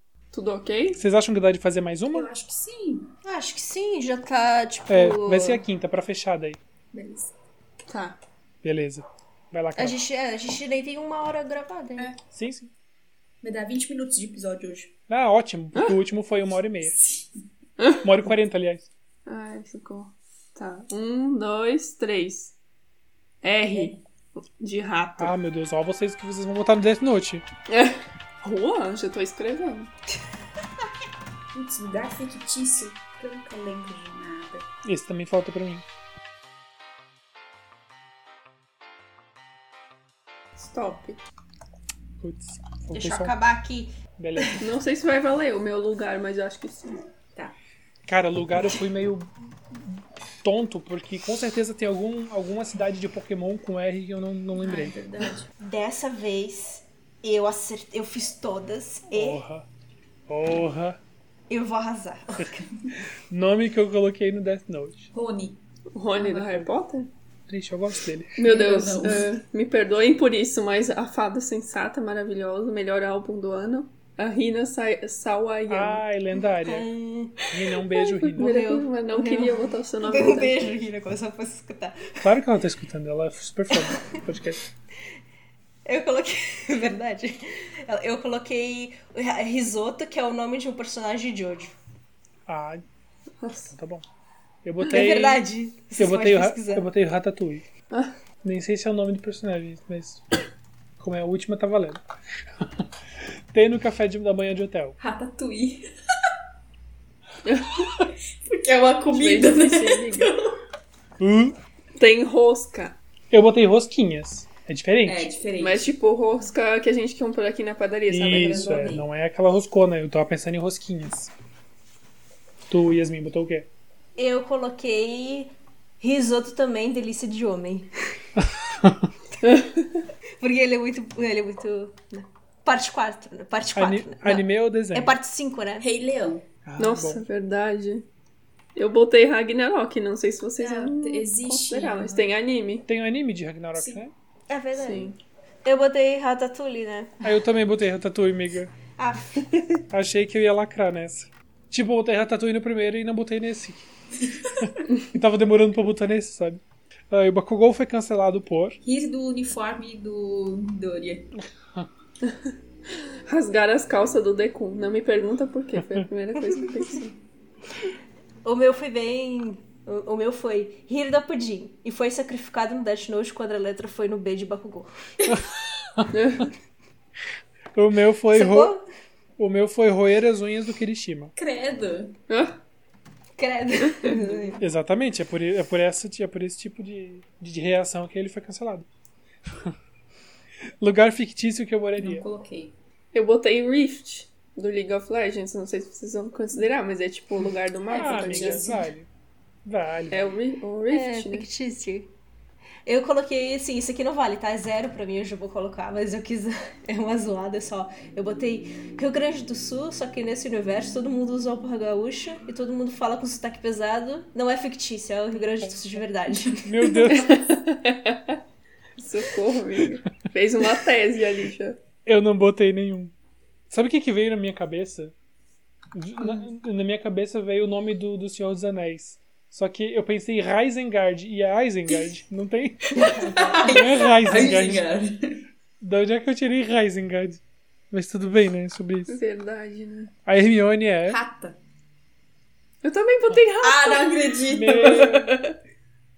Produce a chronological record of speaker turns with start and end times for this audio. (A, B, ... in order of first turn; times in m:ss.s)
0:00.3-0:01.0 A
0:00.9-0:02.3 B
0:02.1-0:03.1 C
0:03.2-0:05.6 D
0:04.9-0:06.6 B
0:06.9-0:07.3 C
0:07.9-0:08.2 A
0:08.6-0:10.0 B
0:09.8-0:12.1 D
0:12.3-0:12.7 B
0:13.4-0:14.9 C
0:15.1-0:16.9 B
0:17.0-0:17.4 C
0:17.8-0:18.0 A
0:18.0-0:18.9 B
0:19.2-0:22.6 A
0:23.4-0:25.3 A
0:23.6-0:24.0 C
0:25.2-0:27.4 B
0:27.7-0:29.9 A
0:31.5-0:34.6 C
0:34.8-0:35.8 B
0:40.6-0:41.2 A
0:42.2-0:43.3 B
0:42.9-0:44.6 D
0:44.2-0:44.6 B
0:44.6-0:47.0 A
0:48.1-0:55.0 B
0:54.6-0:55.5 C
0:55.6-0:59.4 D
0:59.1-0:59.7 B
1:00.3-1:01.0 B
1:01.5-1:02.6 D
1:03.3-1:05.1 B
1:05.1-1:05.6 C
1:05.9-1:07.1 A
1:06.3-1:06.7 B
1:07.5-1:08.4 B
1:08.4-1:16.0 A
1:08.4-1:09.3 C
1:15.7-1:16.9 B
1:16.6-1:17.4 D
1:17.5-1:18.5 B
1:18.3-1:22.2 D
1:18.3-1:20.8 A
1:22.2-1:24.6 B
1:23.7-1:24.0 D
1:25.8-1:31.7 D
1:32.5-1:32.8 B
1:33.4-1:33.7 A
1:33.7-1:34.0 B
1:34.6-1:37.6 B
1:34.8-1:36.9 D
1:38.4-1:40.2 B
1:41.0-1:42.0 B
1:42.6-1:42.8 B
1:43.5-1:45.0 B
1:45.0-1:45.8 C
1:47.4-1:47.8 A
1:48.4-1:50.6 C
1:49.1-1:50.3 A
1:51.2-1:51.6 B
1:52.0-1:53.0 A
1:53.3-1:55.3 B
1:55.0-1:55.9 C
1:55.6-1:58.9 A
1:58.1-2:01.3 B
1:58.2-1:59.0 C
2:02.7-2:03.7 B
2:04.2-2:07.9 D
2:08.6-2:09.1 B
2:09.4-2:10.0 A
2:10.4-2:15.9 D
2:13.7-2:15.2 B
2:15.8-2:16.4 C
2:16.6-2:17.2 B
2:16.8-2:18.0 A
2:18.8-2:22.9 A
2:20.6-2:22.3 C
2:22.9-2:24.1 B
2:23.7-2:24.0 C
2:24.5-2:25.1 D
2:24.8-2:25.2 A
2:25.6-2:27.3 D
2:27.2-2:28.7 B
2:29.0-2:29.4 D
2:29.9-2:33.9 B
2:34.3-2:34.7 C
2:34.6-2:38.8 B
2:38.8-2:41.3 C
2:42.3-2:42.5 A
2:43.3-2:47.2 A
2:48.4-2:54.9 D
2:55.3-2:56.4 B
2:56.1-2:56.5 A
2:57.7-2:58.7 B
2:58.3-2:58.8 D
2:59.4-3:01.3 B
3:01.4-3:02.1 C
3:02.3-3:02.6 A
3:03.4-3:04.6 D
3:03.9-3:04.2 A
3:04.6-3:08.9 B
3:09.5-3:09.8 B
3:10.8-3:12.2 B
3:12.0-3:12.7 C
3:13.1-3:18.8 A
3:17.9-3:18.8 C
3:17.9-3:19.1 B
3:19.6-3:20.3 B
3:20.1-3:21.5 A
3:20.9-3:22.1 D
3:22.8-3:37.2 D
3:35.6-3:37.4 B
3:37.1-3:38.4 A
3:39.0-3:41.8 A
3:42.0-3:43.1 B
3:43.7-3:45.1 B
3:45.9-3:54.9 B
3:52.9-3:55.4 C
3:55.8-3:59.2 B
3:59.1-4:00.1 A
4:00.2-4:01.2 B
4:01.0-4:01.6 C
4:02.8-4:05.2 A
4:03.6-4:05.5 C
4:04.5-4:05.3 B